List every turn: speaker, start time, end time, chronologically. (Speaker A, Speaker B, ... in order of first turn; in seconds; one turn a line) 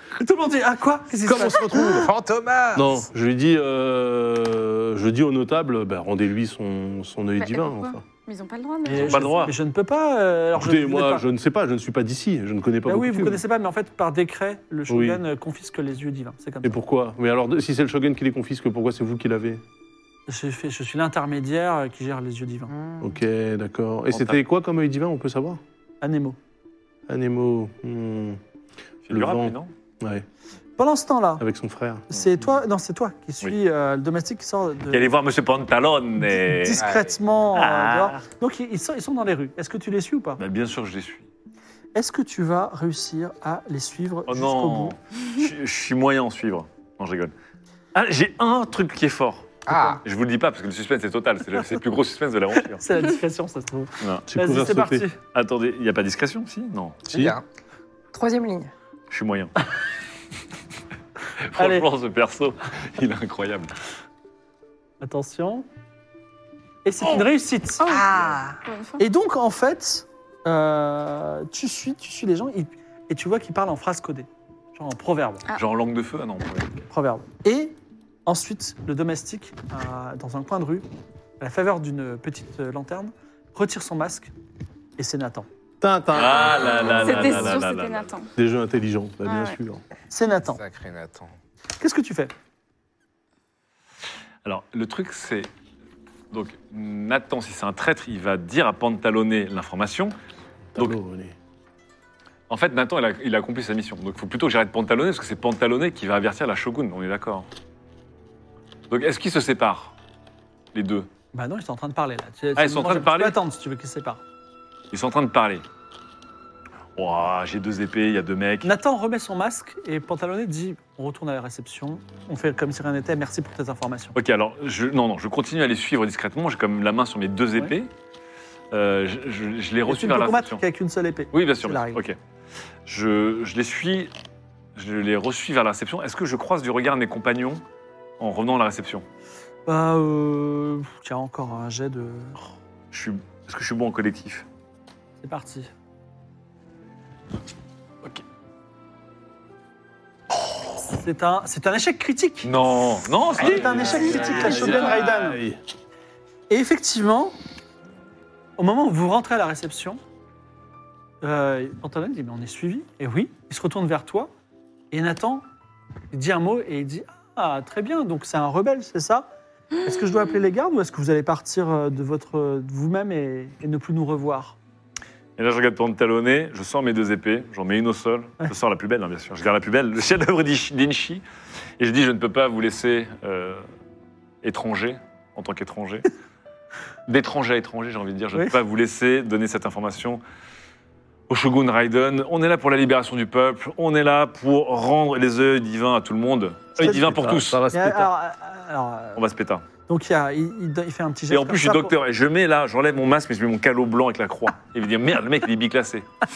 Speaker A: 0.2-2.0
Speaker B: 1.2-2.1
Speaker C: 1.8-3.0
Speaker B: 2.7-8.0
Speaker D: 7.4-9.4
Speaker A: 8.9-11.2
Speaker E: 8.9-9.5
Speaker B: 10.6-13.4
Speaker A: 12.9-16.8
Speaker B: 14.9-15.2
Speaker B: 16.6-19.6
Speaker A: 20.3-22.7
Speaker F: 22.7-23.2
Speaker B: 23.0-25.6
Speaker E: 24.1-24.4
Speaker A: 26.0-26.4
Speaker B: 27.1-28.4
Speaker E: 29.1-29.7
Speaker B: 29.1-30.3
Speaker A: 30.8-31.4
Speaker B: 31.4-32.0
Speaker A: 32.1-35.1
Speaker E: 34.9-36.8
Speaker A: 36.3-40.4
Speaker C: 36.8-37.2
Speaker E: 37.5-38.2
Speaker E: 40.4-41.3
Speaker A: 42.0-44.9
Speaker E: 44.3-47.3
Speaker E: 47.9-52.8
Speaker C: 49.7-50.0
Speaker A: 49.7-50.0
Speaker A: 52.7-55.2
Speaker E: 54.0-54.3
Speaker B: 54.3-55.1
Speaker E: 55.3-57.0
Speaker B: 57.1-57.4
Speaker C: 57.1-57.4
Speaker F: 58.1-58.7
Speaker E: 59.1-59.5
Speaker E: 61.5-63.7
Speaker A: 61.6-61.9
Speaker A: 65.0-65.7
Speaker A: 66.8-67.9
Speaker F: 67.8-68.6
Speaker D: 68.7-69.0
Speaker A: 69.0-75.4
Speaker E: 75.6-76.8
Speaker A: 76.9-80.8
Speaker A: 81.4-84.3
Speaker A: 85.0-85.5
Speaker B: 85.8-87.6
Speaker E: 86.1-88.1
Speaker D: 87.0-88.3
Speaker B: 88.4-89.8
Speaker D: 89.3-89.6
Speaker A: 90.1-90.6
Speaker C: 90.5-91.3
Speaker A: 91.8-92.3
Speaker E: 94.5-95.5
Speaker E: 96.3-100.1
Speaker B: 100.8-101.3
Speaker E: 102.5-107.5
Speaker E: 108.9-109.9
Speaker E: 110.7-111.1
Speaker A: 111.3-114.2
Speaker E: 112.6-113.4
Speaker E: 114.9-115.6
Speaker E: 117.0-118.7
Speaker A: 118.6-124.2
Speaker E: 124.2-127.9
Speaker E: 128.7-130.6
Speaker A: 129.9-132.0
Speaker E: 131.3-132.2
Speaker E: 132.9-134.1
Speaker E: 134.8-137.6
Speaker E: 138.2-139.1
Speaker A: 139.7-142.4
Speaker E: 142.9-144.5
Speaker A: 145.2-145.7
Speaker A: 150.9-152.5
Speaker E: 152.4-155.0
Speaker A: 153.4-155.4
Speaker B: 153.4-155.6
Speaker A: 156.5-157.3
Speaker A: 158.6-160.0
Speaker A: 161.2-164.3
Speaker A: 164.9-165.4
Speaker A: 166.1-169.3
Speaker A: 169.8-174.6
Speaker E: 175.4-181.2
Speaker E: 181.8-183.7
Speaker E: 184.4-186.1
Speaker E: 187.1-190.2
Speaker E: 191.3-197.6
Speaker B: 196.8-198.1
Speaker A: 196.8-197.1
Speaker A: 197.7-199.2
Speaker E: 199.2-199.6
Speaker A: 199.9-201.9
Speaker E: 201.3-206.1